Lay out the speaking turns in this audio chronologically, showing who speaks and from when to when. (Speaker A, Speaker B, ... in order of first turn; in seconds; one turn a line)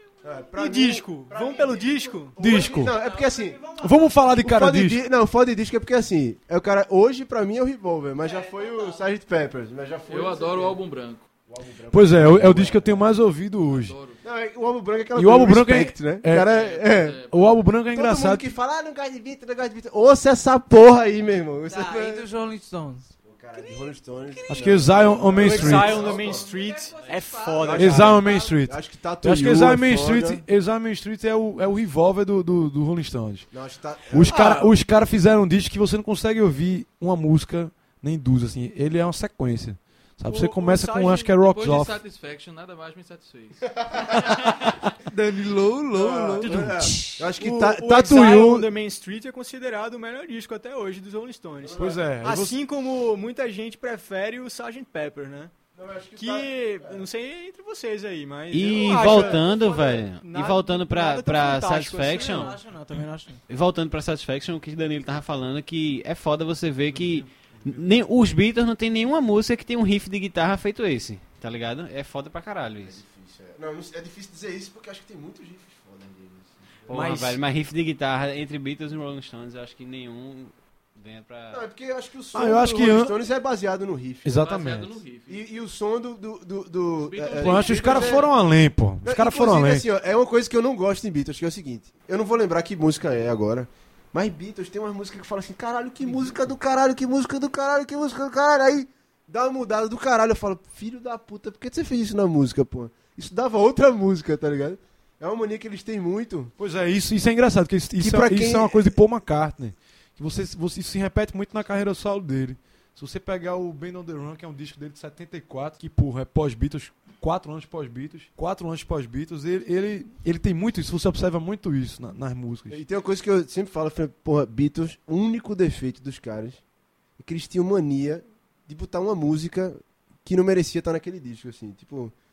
Speaker A: 0.2-3.6
Speaker B: 0.6-2.4
Speaker C: 2.4-2.9
Speaker D: 2.9-4.3
Speaker C: 3.8-5.0
Speaker A: 4.4-10.8
Speaker D: 8.2-9.0
Speaker E: 10.1-11.2
Speaker A: 11.5-13.1
Speaker C: 11.9-13.9
Speaker E: 13.6-14.2
Speaker A: 14.2-17.2
Speaker C: 15.2-16.5
Speaker E: 16.3-17.6
Speaker C: 17.3-18.5
Speaker A: 17.9-22.2
Speaker D: 21.7-25.0
Speaker A: 23.2-26.4
Speaker C: 24.5-26.0
Speaker B: 25.3-28.2
Speaker D: 25.9-28.6
Speaker A: 27.6-30.4
Speaker C: 27.7-33.5
Speaker A: 33.5-34.6
Speaker C: 34.1-41.9
Speaker B: 34.3-34.7
Speaker B: 40.2-41.3
Speaker E: 41.3-43.7
Speaker A: 43.8-44.2
Speaker C: 44.3-47.1
Speaker A: 45.9-48.7
Speaker B: 47.3-55.5
Speaker A: 51.6-52.1
Speaker C: 51.8-52.6
Speaker A: 55.7-57.0
Speaker B: 56.1-62.5
Speaker F: 58.5-62.6
Speaker A: 58.9-60.1
Speaker D: 62.1-63.4
Speaker F: 63.5-73.0
Speaker C: 66.9-67.8
Speaker A: 72.8-76.8
Speaker F: 76.9-81.6
Speaker B: 76.9-77.4
Speaker A: 81.5-84.5
Speaker C: 82.3-83.1
Speaker C: 84.2-85.0
Speaker E: 84.4-85.4
Speaker A: 85.3-88.3
Speaker E: 87.0-88.3
Speaker C: 87.3-89.8
Speaker A: 89.0-106.5
Speaker C: 106.6-122.8
Speaker A: 108.0-109.0
Speaker A: 122.7-126.6
Speaker A: 127.2-132.1